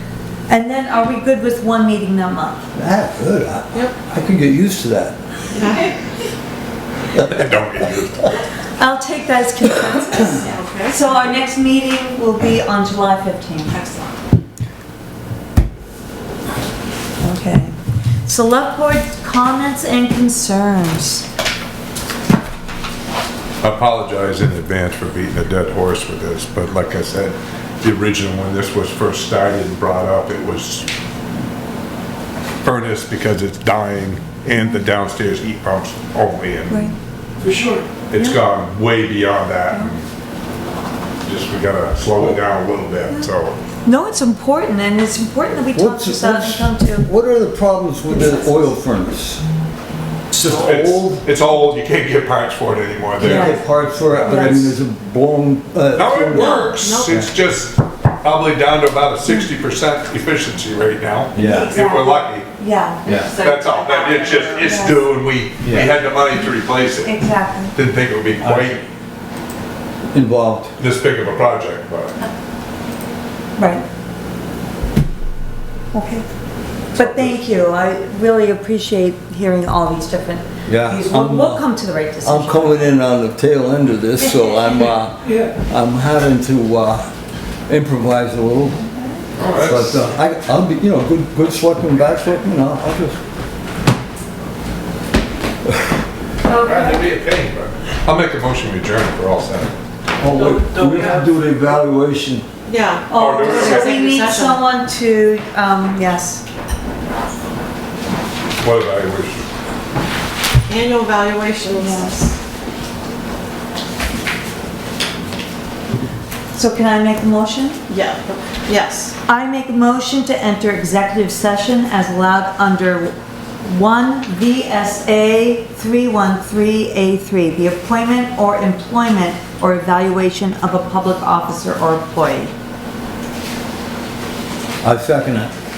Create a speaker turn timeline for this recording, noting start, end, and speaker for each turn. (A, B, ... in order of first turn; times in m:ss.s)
0:00.5-0:02.6 A
0:02.7-0:05.2 B
0:05.5-0:05.9 C
0:07.2-0:08.3 D
0:08.8-0:13.9 A
0:10.3-0:11.1 C
0:17.2-0:21.3 A
0:23.6-0:30.9 D
0:32.6-0:36.8 D
0:34.6-0:34.9 A
0:36.7-0:37.0 A
0:37.4-0:37.8 C
0:38.1-0:40.1 D
0:41.2-0:43.6 D
0:43.8-0:47.1 A
0:45.7-0:49.4 B
0:48.1-0:48.7 A
0:50.3-0:51.2 B
0:50.4-0:54.8 D
0:53.2-0:57.3 B
0:53.2-0:53.7 A
0:54.2-0:54.8 A
0:55.9-1:02.5 D
0:56.3-0:57.2 C
1:01.3-1:01.7 B
1:01.4-1:03.0 A
1:03.0-1:04.6 C
1:03.2-1:07.2 D
1:04.6-1:05.0 A
1:05.6-1:05.9 B
1:07.0-1:07.8 A
1:07.7-1:08.8 D
1:08.4-1:08.8 B
1:10.1-1:10.7 B
1:10.8-1:12.2 D
1:13.6-1:13.9 A
1:15.9-1:16.2 A
1:16.9-1:23.0 A
1:20.7-1:21.6 B
1:22.2-1:27.1 B
1:27.7-1:28.8 B
1:28.8-1:29.2 A
1:29.4-1:30.1 D
1:29.5-1:33.2 B
1:36.5-1:37.0 A
1:36.5-1:39.7 D
1:40.2-1:42.4 B
1:40.2-1:41.3 C
1:42.7-1:44.6 C
1:43.1-1:46.4 A
1:43.2-1:43.9 D
1:48.6-1:49.5 D
1:50.7-1:52.3 C
1:51.7-1:52.3 A
1:56.5-1:57.8 A
1:57.9-1:59.2 C
1:59.3-2:12.5 A
2:14.8-2:15.5 B